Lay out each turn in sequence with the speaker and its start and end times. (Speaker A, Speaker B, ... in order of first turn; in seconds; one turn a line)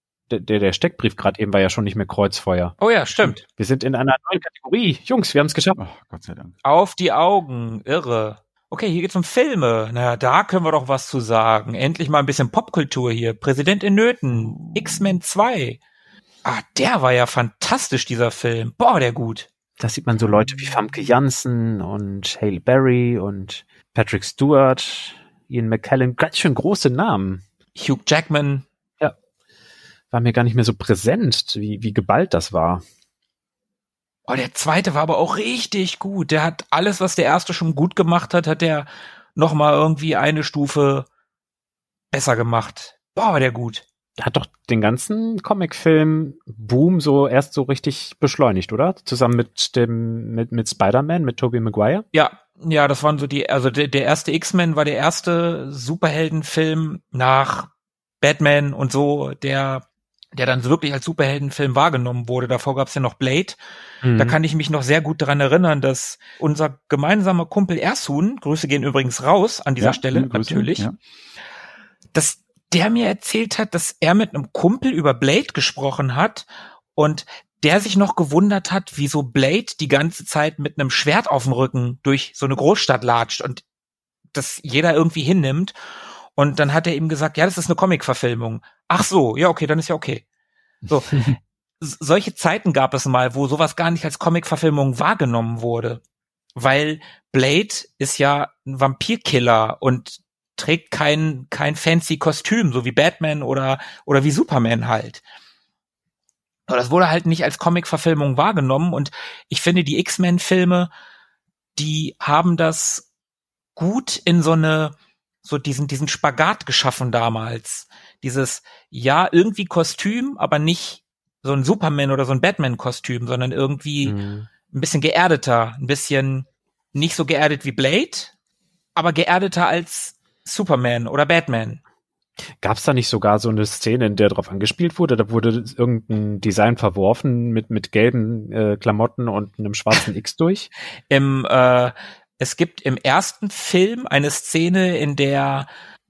Speaker A: 0.3-2.7
Speaker B: 2.8-3.4
Speaker A: 3.5-5.8
Speaker C: 5.7-6.5
Speaker B: 6.6-15.8
Speaker B: 16.4-19.5
Speaker A: 19.8-27.4
Speaker B: 27.8-28.6
Speaker A: 30.1-32.8
Speaker B: 34.3-41.0
Speaker B: 42.1-43.8
Speaker A: 44.2-52.0
Speaker B: 52.1-57.7
Speaker B: 58.2-63.6
Speaker A: 64.0-64.4
Speaker B: 64.2-70.8
Speaker C: 69.8-70.9
Speaker B: 72.1-83.6
Speaker B: 84.3-85.7
Speaker B: 86.4-90.2
Speaker B: 90.9-91.3
Speaker B: 91.8-96.0
Speaker B: 96.5-105.2
Speaker B: 106.7-110.9
Speaker B: 111.8-113.0
Speaker B: 113.8-124.2
Speaker A: 124.0-124.5
Speaker B: 124.7-128.3
Speaker B: 128.9-131.8
Speaker A: 132.6-140.7
Speaker B: 141.1-145.7